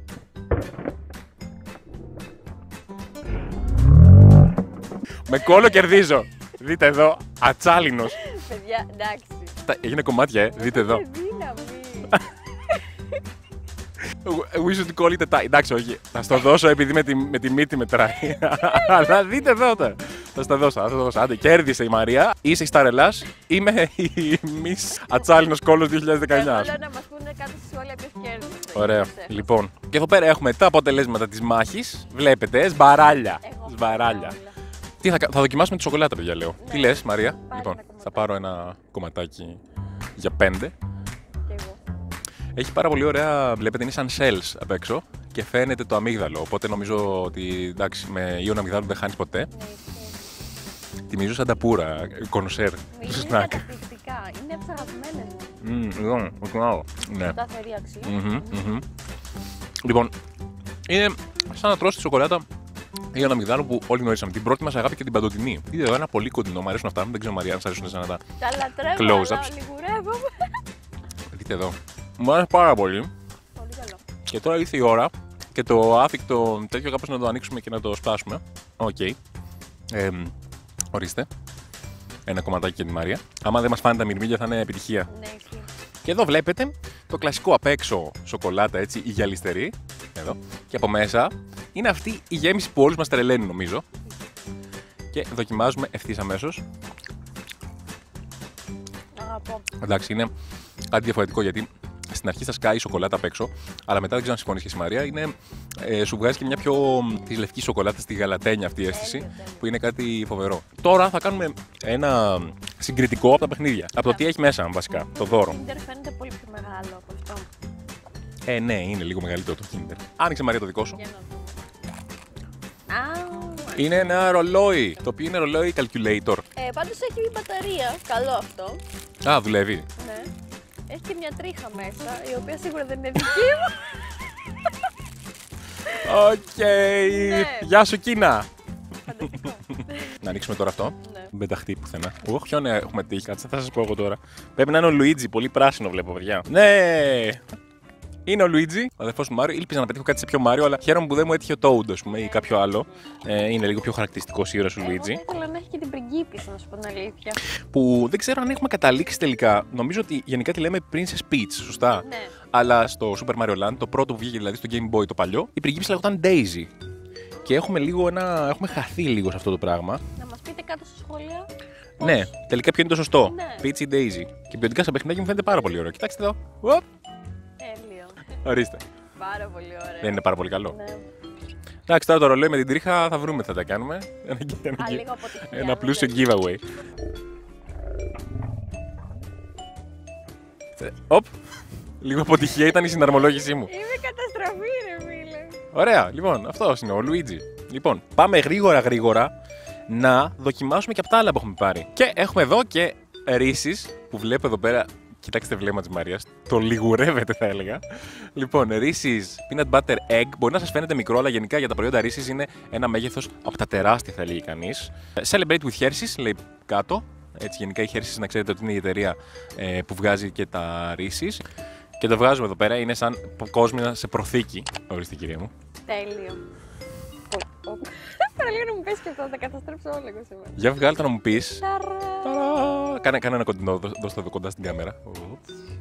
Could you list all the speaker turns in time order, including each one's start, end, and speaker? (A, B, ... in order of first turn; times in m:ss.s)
0:05.3-0:08.2 A
0:05.5-0:06.0 B
0:08.1-0:09.6 B
0:09.6-0:11.0 A
0:10.5-0:13.2 B
0:14.0-0:26.8 A
0:18.2-0:19.2 B
0:26.3-0:29.5 B
0:28.7-0:34.4 A
0:33.4-0:34.6 B
0:35.0-0:39.6 A
0:36.6-0:38.4 B
0:40.2-0:40.7 A
0:41.4-0:41.8 B
0:42.6-0:49.5 A
0:49.5-0:50.2 B
0:51.1-0:53.7 A
0:52.9-0:55.5 B
0:55.6-0:57.4 A
0:57.2-0:58.6 B
0:58.0-0:58.9 A
0:59.8-1:00.1 A
1:00.9-1:02.4 A
1:03.1-1:08.2 A
1:08.4-1:10.6 B
1:09.0-1:09.5 A
1:11.3-1:13.1 A
1:13.6-1:14.0 B
1:14.3-1:19.2 A
1:19.9-1:20.3 A
1:20.9-1:21.3 A
1:22.3-1:25.1 A
1:25.1-1:25.7 B
1:26.0-1:33.8 A
1:35.1-1:36.6 A
1:39.2-1:39.7 B
1:39.8-1:40.3 A
1:40.9-1:55.6 A
1:48.8-1:49.7 B
1:54.0-1:54.3 B
1:55.2-1:57.5 B
1:58.5-2:01.0 A
2:00.9-2:01.6 B
2:02.9-2:04.2 B
2:03.8-2:06.4 A
2:06.6-2:08.8 B
2:09.2-2:09.9 A
2:10.0-2:10.3 B
2:10.9-2:14.7 B
2:16.0-2:18.5 A
2:17.0-2:17.7 B
2:19.1-2:20.1 B
2:19.2-2:19.5 A
2:20.0-2:27.4 A
2:21.0-2:21.3 B
2:28.3-2:35.2 A
2:32.1-2:33.1 B
2:34.8-2:37.4 B
2:37.7-2:46.7 A
2:42.0-2:42.4 B
2:47.4-2:50.0 A
2:50.2-2:51.5 B
2:52.0-2:56.8 A
2:52.0-2:52.3 B
2:53.2-2:53.7 B
2:57.6-2:58.4 B
2:58.4-2:58.8 A
2:59.2-3:01.0 B
3:00.0-3:00.8 A
3:01.9-3:06.6 A
3:04.8-3:06.3 B
3:10.8-3:11.3 A
3:12.0-3:13.7 A
3:13.6-3:15.6 B
3:15.7-3:19.3 A
3:19.9-3:41.4 A
3:42.0-3:45.5 A
3:45.9-3:46.4 B
3:47.3-3:50.6 B
3:50.6-3:51.6 A
3:51.6-3:52.7 B
3:52.2-3:55.4 A